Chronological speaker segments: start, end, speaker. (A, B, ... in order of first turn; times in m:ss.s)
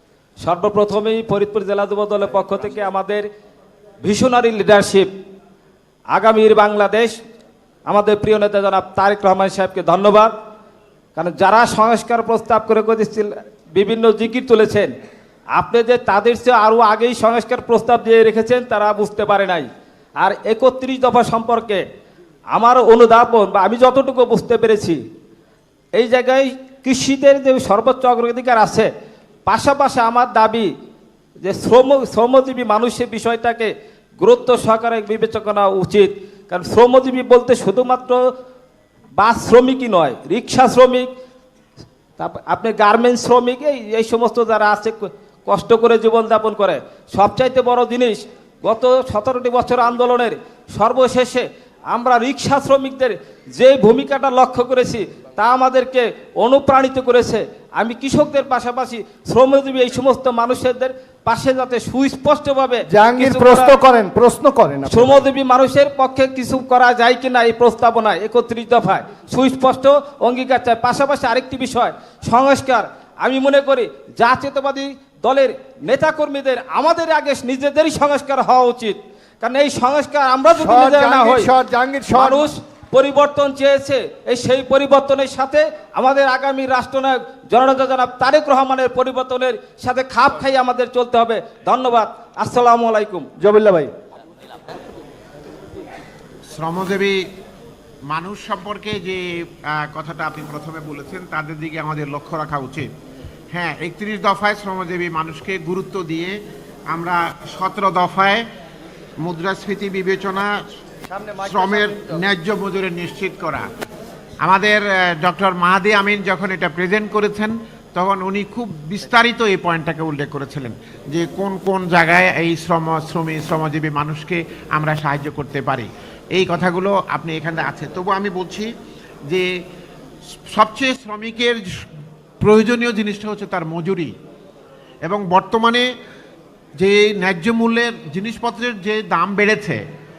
0:00.4-0:03.3 A
0:04.0-0:05.1 A
0:06.1-0:07.2 A
0:07.9-0:10.3 A
0:11.2-0:14.9 A
0:15.5-0:21.8 A
0:22.5-0:25.0 A
0:26.0-0:28.9 A
0:29.5-0:30.7 A
0:31.4-0:38.2 A
0:39.2-0:41.1 A
0:42.2-1:03.8 A
1:02.9-1:05.2 B
1:04.9-1:21.5 A
1:20.6-1:22.5 B
1:22.1-1:33.3 A
1:33.4-1:33.9 B
1:36.5-1:37.2 C
1:38.1-1:42.9 C
1:43.5-1:46.4 C
1:46.9-1:48.4 C
1:49.2-1:50.5 C
1:51.1-1:52.2 B
1:51.4-1:53.6 C
1:54.4-2:08.7 C
2:10.5-2:11.6 C
2:12.4-2:14.1 C
2:15.0-2:15.8 C
2:16.8-2:19.8 C